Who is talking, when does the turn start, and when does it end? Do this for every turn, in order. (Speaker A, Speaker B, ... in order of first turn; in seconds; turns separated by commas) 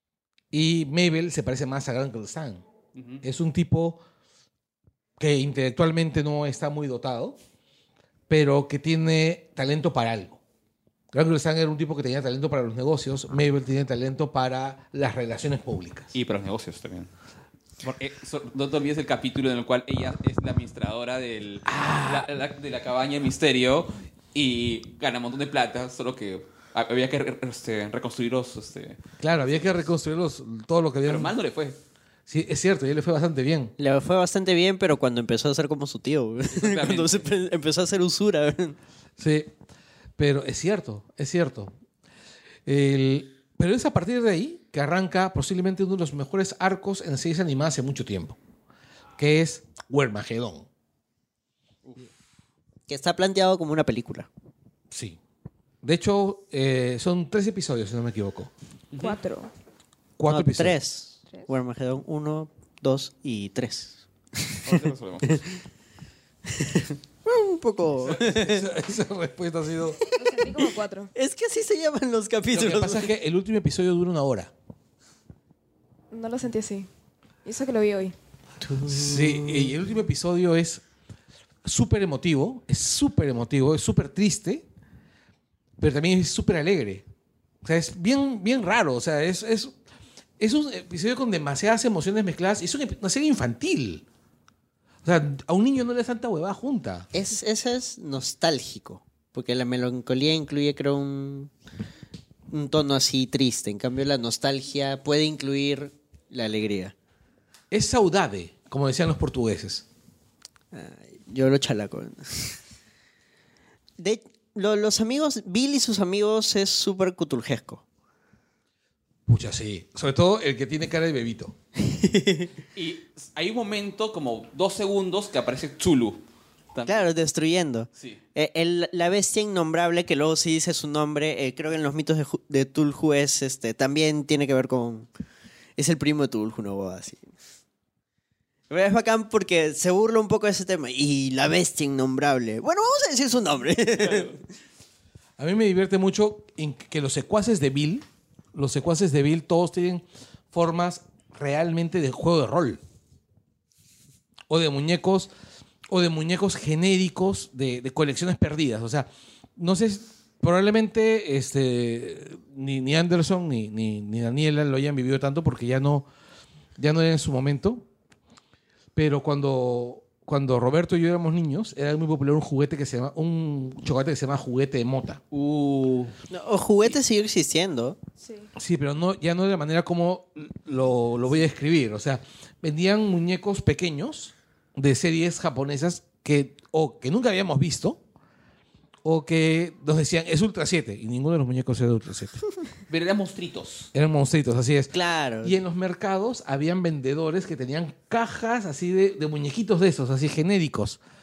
Speaker A: 0.5-2.6, Speaker B: 3.0-3.2, Speaker A: 3.2-4.0, Speaker A: 5.2-7.4, Speaker A: 8.3-10.4, Speaker A: 11.1-16.1, Speaker B: 16.1-17.1, Speaker B: 17.8-29.0, Speaker A: 21.7-22.3, Speaker A: 29.2-31.4, Speaker B: 31.1-31.8, Speaker A: 32.3-33.7, Speaker C: 33.8-38.8, Speaker B: 36.5-37.3, Speaker A: 39.2-39.5, Speaker A: 40.2-41.7, Speaker A: 42.7-48.4, Speaker A: 49.2-50.7, Speaker C: 52.9-54.3, Speaker A: 54.9-55.2, Speaker A: 55.8-58.5, Speaker B: 58.9-59.2, Speaker D: 59.0-59.5, Speaker A: 60.2-60.8, Speaker C: 60.3-64.6, Speaker B: 64.6-65.5, Speaker C: 66.5-68.7, Speaker A: 68.1-70.0, Speaker D: 70.2-71.1, Speaker C: 71.1-73.1, Speaker A: 72.5-74.5, Speaker D: 76.1-76.9, Speaker D: 77.5-78.2, Speaker C: 78.6-79.7, Speaker A: 78.9-80.8, Speaker A: 81.7-84.6, Speaker A: 85.8-87.0, Speaker A: 87.6-89.8, Speaker A: 90.4-94.0, Speaker A: 95.0-97.1, Speaker C: 97.1-101.5, Speaker C: 102.5-106.9, Speaker A: 107.7-109.8, Speaker C: 110.7-112.6, Speaker C: 114.0-117.8, Speaker A: 119.3-121.5, Speaker C: 121.8-122.5, Speaker B: 122.8-126.2, Speaker B: 126.7-127.1, Speaker C: 126.9-135.1, Speaker C: 135.8-137.3, Speaker C: 138.7-144.4, Speaker A: 145.4-152.8, Speaker A: 154.5-155.3, Speaker A: 155.9-166.1, Speaker A: 166.8-167.8, Speaker A: 169.0-175.2, Speaker C: 175.3-178.0, Speaker D: 178.2-178.5, Speaker A: 178.6-188.0, Speaker A: 189.0-192.4, Speaker B: 192.9-193.9, Speaker A: 193.9-201.0, Speaker C: 194.9-195.6